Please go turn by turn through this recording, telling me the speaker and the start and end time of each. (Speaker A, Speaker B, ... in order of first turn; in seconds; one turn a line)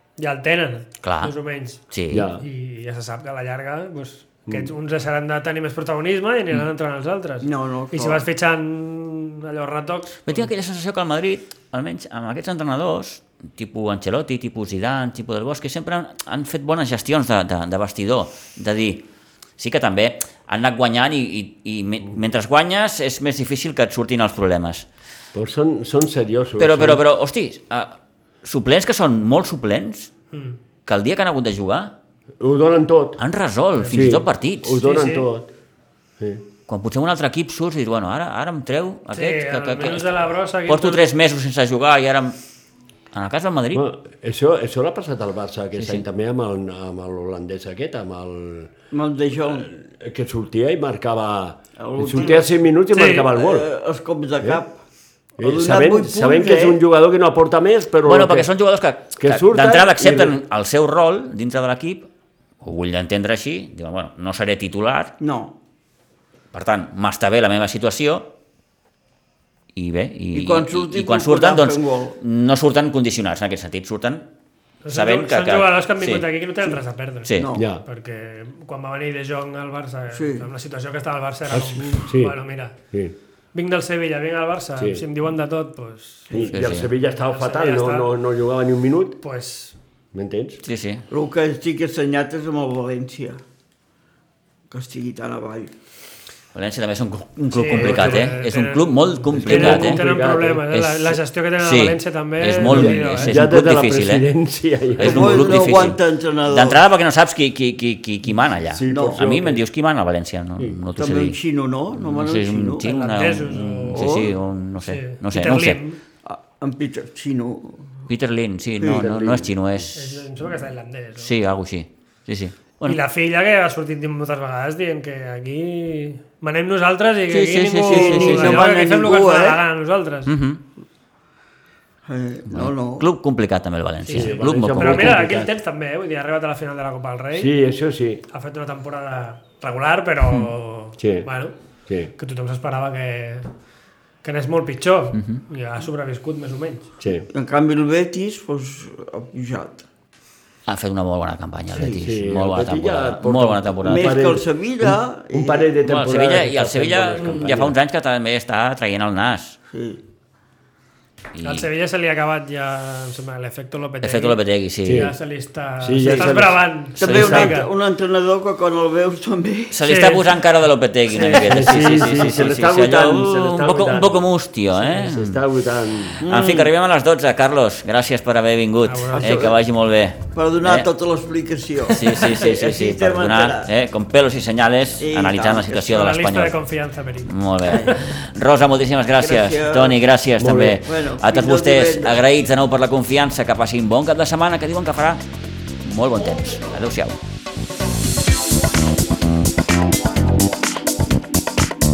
Speaker A: 0.2-1.8
Speaker B: 1.0-1.3
Speaker B: 1.9-2.3
Speaker C: 2.1-2.4
Speaker A: 2.4-10.5
Speaker C: 4.5-4.7
Speaker D: 7.4-8.3
Speaker B: 10.3-19.0
Speaker B: 19.6-24.9
Speaker C: 25.3-27.0
Speaker B: 26.6-30.1
Speaker A: 30.3-30.6
Speaker B: 30.9-31.9
Speaker C: 32.4-33.2
Speaker B: 33.2-34.9
Speaker C: 33.8-35.5
Speaker A: 34.8-35.3
Speaker C: 36.2-36.5
Speaker B: 36.7-42.4
Speaker A: 39.1-41.1
Speaker B: 43.1-43.8
Speaker C: 43.7-48.7
Speaker B: 45.8-46.0
Speaker D: 48.9-49.7
Speaker C: 49.6-53.7
Speaker D: 51.8-52.5
Speaker A: 52.9-53.3
Speaker D: 53.3-54.8
Speaker C: 55.4-58.5
Speaker D: 55.4-56.8
Speaker B: 58.0-62.1
Speaker C: 59.2-60.4
Speaker B: 62.6-65.1
Speaker D: 65.2-65.5
Speaker B: 66.5-68.3
Speaker B: 69.8-74.3
Speaker D: 70.3-72.2
Speaker A: 74.8-77.3
Speaker B: 74.9-76.2
Speaker B: 77.2-77.5
Speaker D: 77.4-77.7
Speaker C: 77.5-77.8
Speaker A: 77.8-82.8
Speaker D: 80.1-80.5
Speaker C: 81.5-82.4
Speaker A: 83.5-88.1
Speaker C: 84.8-85.0
Speaker C: 86.3-89.2
Speaker B: 86.5-86.9
Speaker A: 89.2-89.8
Speaker C: 90.1-90.6
Speaker B: 90.7-91.1
Speaker D: 91.1-93.4
Speaker D: 94.7-95.7
Speaker B: 96.5-100.0
Speaker A: 97.5-103.4
Speaker C: 97.8-98.2
Speaker C: 99.3-100.7
Speaker B: 100.7-104.3
Speaker C: 102.6-106.0
Speaker B: 105.0-111.4
Speaker D: 105.0-106.8
Speaker C: 108.7-109.6
Speaker D: 108.9-109.2
Speaker D: 111.0-112.9
Speaker B: 111.9-115.8
Speaker A: 112.8-114.1
Speaker D: 113.9-114.3
Speaker A: 114.8-116.0
Speaker D: 116.2-117.9
Speaker B: 118.1-120.2
Speaker D: 118.8-119.1
Speaker C: 118.9-119.5
Speaker A: 120.0-121.3
Speaker B: 121.2-123.0
Speaker A: 122.8-130.3
Speaker B: 127.3-128.6
Speaker D: 127.9-129.6
Speaker B: 130.3-130.6
Speaker D: 132.1-133.1
Speaker B: 132.5-135.2
Speaker A: 134.1-137.5
Speaker C: 134.1-135.5
Speaker C: 137.3-138.2
Speaker A: 138.3-141.5
Speaker C: 141.0-141.3
Speaker A: 142.2-143.5
Speaker A: 144.2-146.9
Speaker B: 145.2-145.4
Speaker C: 147.0-147.3
Speaker D: 147.3-149.8
Speaker B: 150.7-154.2
Speaker C: 151.8-157.7
Speaker D: 153.8-155.7
Speaker B: 155.8-159.6
Speaker D: 159.7-160.0
Speaker B: 161.3-161.7
Speaker A: 161.4-167.7
Speaker B: 164.0-165.1
Speaker C: 164.8-165.1
Speaker C: 165.8-167.6
Speaker D: 166.0-166.3
Speaker B: 167.0-167.4
Speaker D: 167.0-169.8
Speaker B: 169.7-175.4
Speaker A: 169.8-170.3
Speaker C: 171.1-176.2
Speaker B: 176.2-180.9
Speaker D: 176.2-176.7
Speaker A: 178.9-179.4
Speaker D: 179.1-179.6
Speaker D: 180.3-183.7
Speaker B: 181.9-186.6
Speaker D: 185.0-185.9
Speaker A: 185.9-188.0
Speaker B: 187.3-195.2
Speaker D: 189.2-190.0
Speaker C: 190.4-190.8
Speaker D: 190.8-192.2
Speaker B: 195.8-197.2